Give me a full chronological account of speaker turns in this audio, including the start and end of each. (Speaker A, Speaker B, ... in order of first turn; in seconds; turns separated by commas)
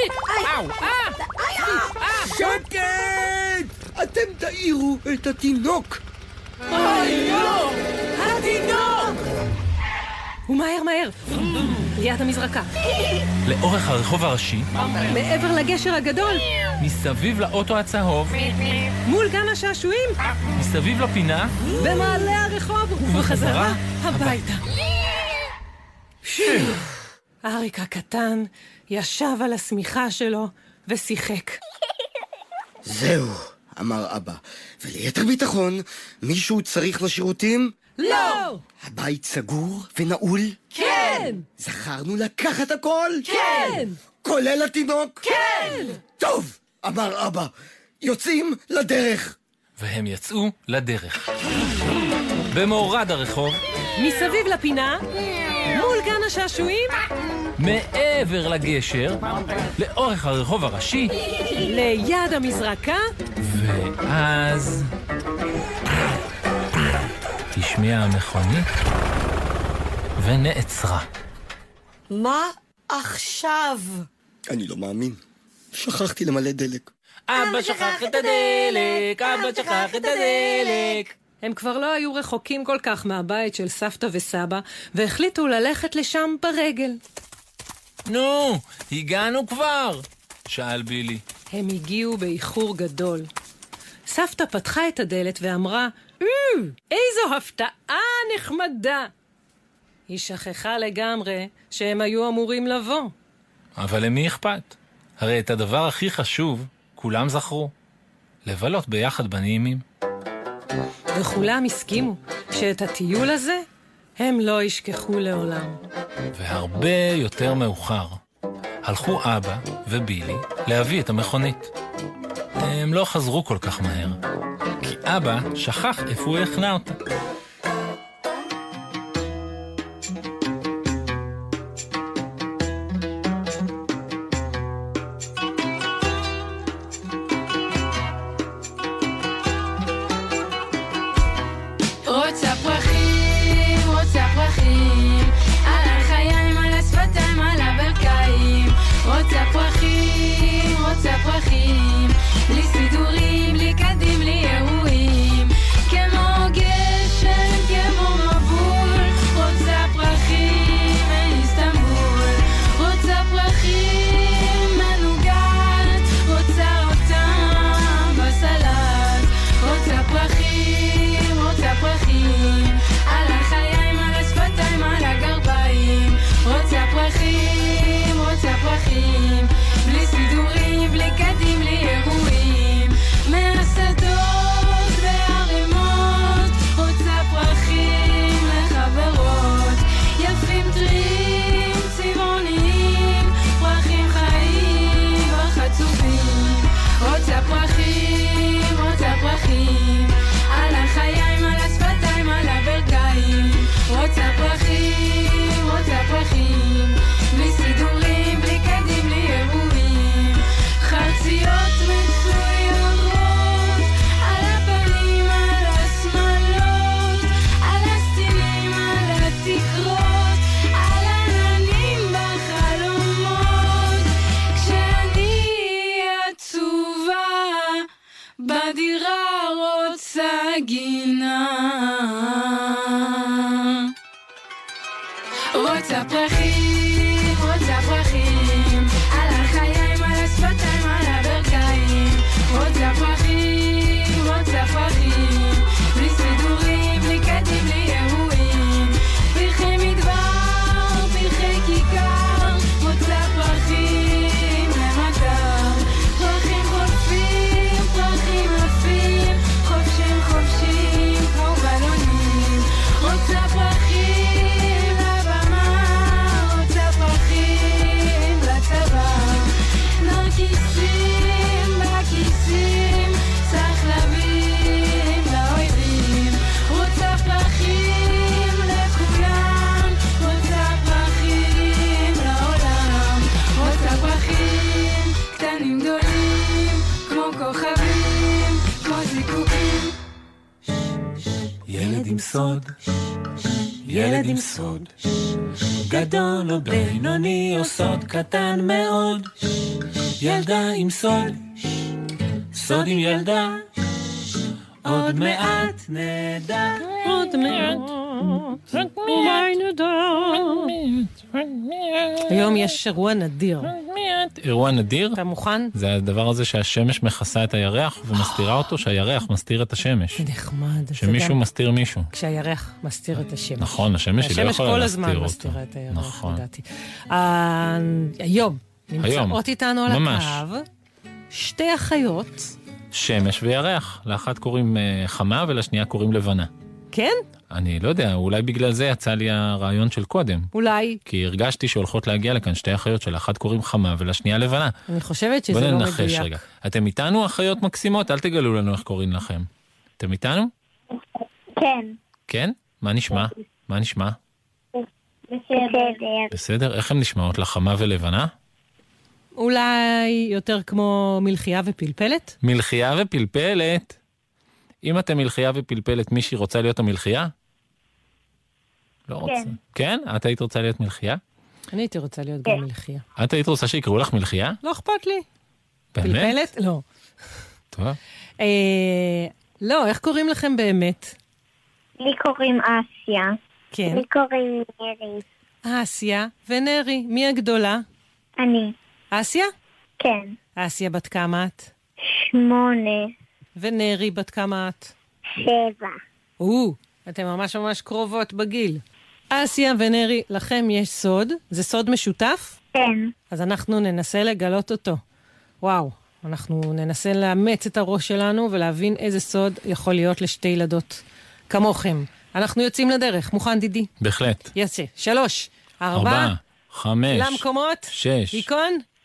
Speaker A: 0.3-2.0, Speaker B: 0.5-1.1, Speaker C: 2.2-6.0, Speaker A: 7.1-7.7, Speaker A: 8.2-9.2, Speaker D: 10.5-11.2, Speaker D: 11.9-12.7, Speaker B: 13.5-14.7, Speaker D: 15.0-16.4, Speaker B: 16.8-18.5, Speaker D: 19.1-20.2, Speaker B: 20.6-21.6, Speaker D: 21.8-24.6, Speaker B: 23.0-24.4, Speaker D: 26.3-26.8, Speaker D: 27.4-31.6, Speaker C: 32.9-37.7, Speaker D: 38.0-38.6, Speaker C: 38.8-40.6, Speaker A: 40.8-41.3, Speaker D: 40.8-41.4, Speaker C: 41.6-43.5, Speaker D: 43.3-44.0, Speaker A: 43.3-43.8, Speaker C: 44.2-45.2, Speaker A: 45.3-45.8, Speaker D: 45.4-45.9, Speaker C: 46.2-49.4, Speaker B: 49.8-51.3, Speaker B: 52.5-53.6, Speaker D: 54.0-55.0, Speaker D: 55.7-57.0, Speaker B: 57.6-61.1, Speaker D: 61.6-63.0, Speaker B: 63.4-64.9, Speaker B: 67.5-68.7, Speaker B: 70.2-71.1, Speaker A: 72.1-74.0, Speaker C: 74.5-75.2, Speaker C: 75.7-76.9, Speaker B: 77.3-81.1, Speaker A: 77.4-81.0, Speaker D: 81.4-87.0, Speaker B: 88.1-91.2, Speaker D: 91.5-93.3, Speaker D: 94.1-99.1, Speaker D: 100.1-103.1, Speaker B: 103.8-107.7, Speaker B: 108.5-109.8, Speaker D: 111.1-113.7, Speaker D: 114.2-115.8, Speaker B: 116.3-118.2, Speaker B: 118.8-121.7, Speaker B: 122.6-124.2, Speaker B: 124.8-127.0, Speaker E: 142.1-227.9, Speaker E: 228.4-233.9, Speaker E: 235.5-289.9, Speaker B: 291.7-292.8, Speaker B: 293.9-294.9, Speaker B: 295.8-299.3, Speaker B: 300.2-301.9, Speaker B: 302.5-303.6, Speaker B: 304.8-307.8, Speaker D: 307.0-310.7, Speaker B: 308.8-309.5, Speaker B: 310.7-312.2, Speaker D: 312.3-313.7, Speaker B: 313.8-315.2, Speaker D: 315.2-315.7, Speaker B: 315.7-320.2, Speaker D: 320.2-321.4, Speaker B: 321.0-322.1, Speaker D: 322.1-330.6, Speaker B: 323.6-326.4, Speaker B: 329.0-330.4, Speaker D: 331.3-332.5, Speaker B: 332.9-336.5, Speaker D: 336.9-337.2, Speaker B: 337.5-340.5, Speaker D: 340.5-341.0, Speaker B: 341.1-344.7, Speaker D: 344.9-346.4, Speaker B: 345.5-349.5, Speaker B: 350.0-350.5, Speaker F: 351.6-352.0, Speaker B: 352.3-354.2, Speaker F: 355.3-356.3, Speaker B: 356.3-358.3, Speaker D: 359.4-362.4, Speaker B: 362.4-364.0, Speaker B: 364.8-367.3, Speaker B: 369.1-371.2, Speaker F: 369.2-369.5, Speaker D: 371.7-373.0, Speaker B: 373.2-374.6, Speaker D: 374.6-375.2, Speaker B: 376.0-376.4, Speaker D: 376.0-376.8, Speaker B: 377.7-378.0, Speaker D: 378.4-381.1, Speaker F: 382.0-383.4, Speaker D: 383.7-384.1, Speaker F: 383.9-385.2, Speaker D: 385.6-387.8, Speaker F: 388.4-388.7, Speaker D: 389.1-389.5, Speaker F: 390.0-390.3, Speaker D: 390.6-391.7, Speaker F: 392.1-393.1, Speaker D: 393.6-394.9, Speaker F: 395.4-396.0, Speaker D: 396.4-402.6, Speaker F: 402.8-403.1, Speaker D: 403.3-405.0, Speaker D: 405.6-413.9, Speaker B: 414.0-414.5, Speaker D: 414.6-416.3, Speaker B: 415.9-418.4, Speaker D: 417.1-418.8